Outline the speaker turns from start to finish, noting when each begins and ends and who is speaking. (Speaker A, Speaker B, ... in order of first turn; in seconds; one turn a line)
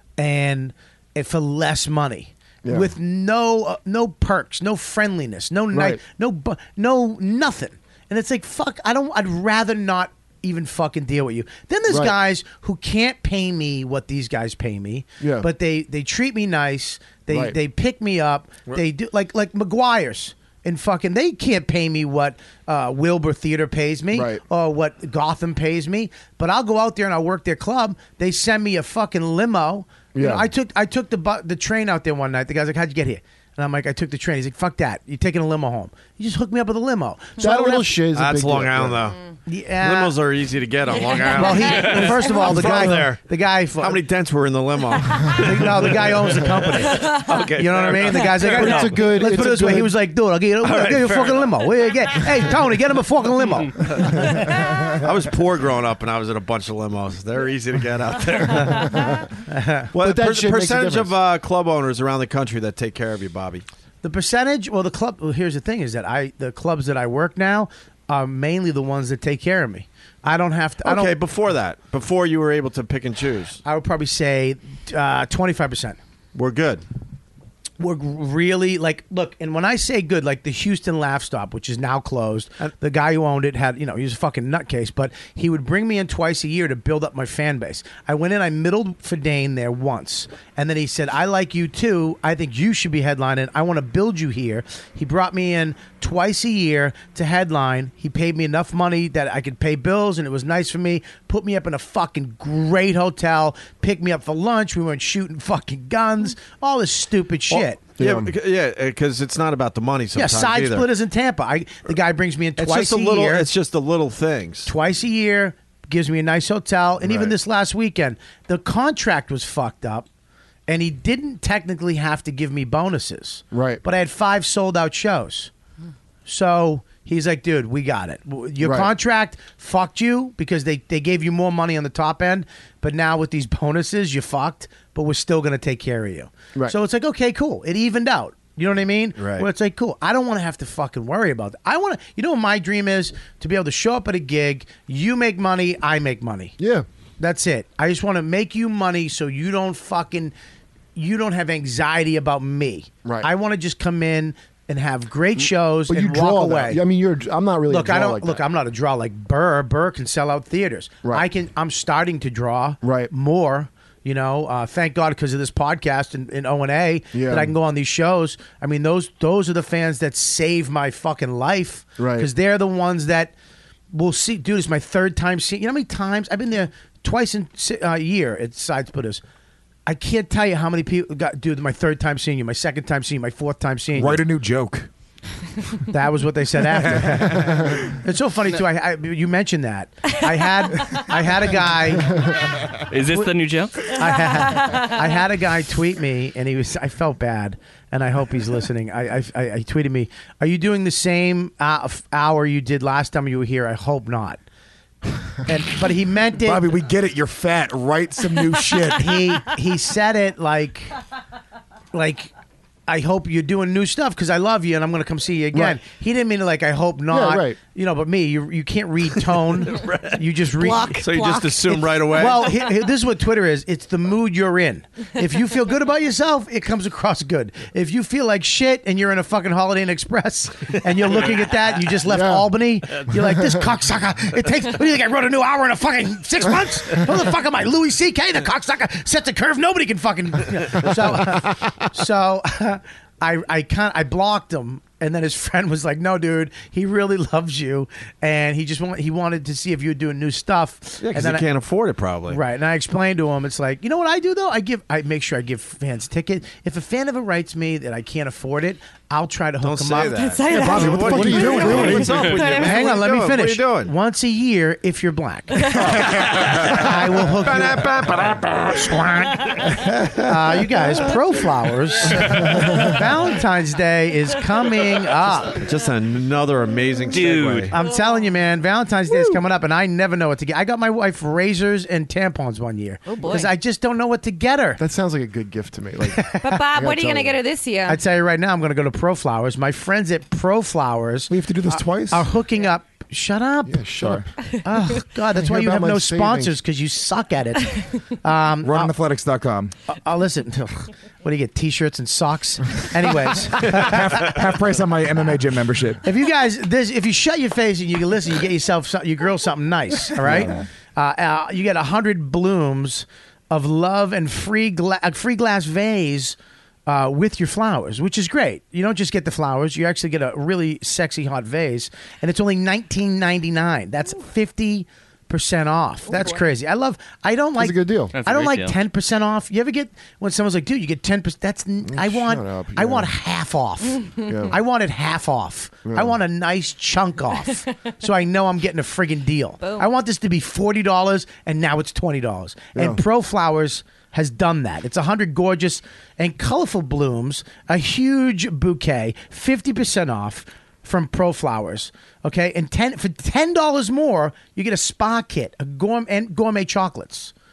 Speaker A: 0.2-38.0
Speaker B: 2.6-2.9
Speaker B: 5.7-6.0
Speaker B: 11.9-12.2
Speaker B: 15.2-15.5
Speaker B: 17.3-17.6
Speaker B: 24.1-24.4
Speaker B: 30.1-30.5
Speaker B: 37.4-39.0
Speaker C: 38.1-39.2
Speaker A: 39.5-40.1
Speaker C: 39.8-49.6
Speaker D: 40.9-42.5
Speaker A: 41.3-44.0
Speaker E: 41.8-42.1
Speaker A: 45.3-54.6
Speaker D: 46.9-47.4
Speaker B: 48.5-49.9
Speaker C: 50.6-52.2
Speaker C: 53.8-59.1
Speaker B: 58.6-59.2
Speaker A: 59.5-59.9
Speaker C: 59.9-63.6
Speaker B: 60.0-61.1
Speaker A: 64.0-71.1
Speaker C: 70.8-73.6
Speaker A: 73.6-76.0
Speaker C: 76.3-76.8
Speaker A: 77.8-107.8
Speaker C: 107.5-110.9
Speaker B: 108.0-108.3
Speaker A: 110.1-113.5
Speaker C: 112.6-114.7
Speaker A: 114.7-120.1
Speaker C: 117.0-117.3
Speaker A: 120.7-125.5
Speaker B: 123.5-123.8
Speaker A: 126.2-146.5
Speaker B: 128.6-128.9
Speaker C: 139.2-139.5
Speaker B: 146.6-146.8
Speaker A: 147.2-150.3
Speaker A: 150.9-156.8
Speaker B: 155.4-158.4
Speaker A: 157.7-173.3
Speaker B: 162.8-163.1
Speaker B: 167.1-167.5
Speaker B: 172.0-172.3
Speaker A: 173.9-179.2
Speaker A: 179.8-184.2
Speaker F: 183.9-184.9
Speaker A: 185.9-192.3
Speaker F: 186.7-187.7
Speaker B: 187.4-187.8
Speaker E: 192.9-194.0
Speaker A: 193.1-204.4
Speaker D: 193.9-195.1
Speaker A: 205.4-206.6
Speaker F: 206.4-209.5
Speaker A: 208.9-210.9
Speaker A: 211.9-212.3
Speaker A: 212.9-221.1
Speaker B: 215.5-215.8
Speaker B: 217.1-217.6
Speaker C: 219.7-220.1
Speaker D: 220.6-221.9
Speaker C: 220.7-222.6
Speaker A: 221.7-251.5
Speaker C: 231.1-231.4
Speaker B: 232.1-232.5
Speaker B: 233.1-233.5
Speaker C: 251.0-252.4
Speaker A: 252.3-260.2
Speaker C: 259.6-263.9
Speaker D: 260.1-262.9
Speaker F: 260.5-262.3
Speaker B: 261.0-262.1
Speaker A: 262.2-265.7
Speaker D: 265.5-266.0
Speaker C: 266.0-269.4
Speaker F: 266.1-266.6
Speaker A: 266.4-267.9
Speaker A: 270.2-275.6
Speaker C: 275.5-277.7
Speaker E: 277.1-277.7
Speaker A: 277.7-284.8
Speaker D: 277.7-278.3
Speaker D: 283.1-283.5
Speaker B: 284.8-287.4
Speaker A: 286.1-286.4
Speaker D: 286.4-288.0
Speaker A: 287.9-293.8
Speaker F: 291.3-292.3
Speaker B: 293.7-294.3
Speaker F: 294.0-294.2
Speaker A: 294.6-298.9
Speaker B: 295.3-296.5
Speaker F: 298.6-299.7
Speaker A: 299.9-304.3
Speaker F: 303.5-306.0
Speaker A: 306.0-357.3
Speaker D: 326.1-326.4
Speaker B: 327.6-328.1
Speaker E: 328.1-328.8
Speaker B: 331.9-333.1
Speaker B: 334.3-334.6
Speaker B: 335.9-336.2
Speaker D: 339.6-339.9
Speaker B: 342.7-343.0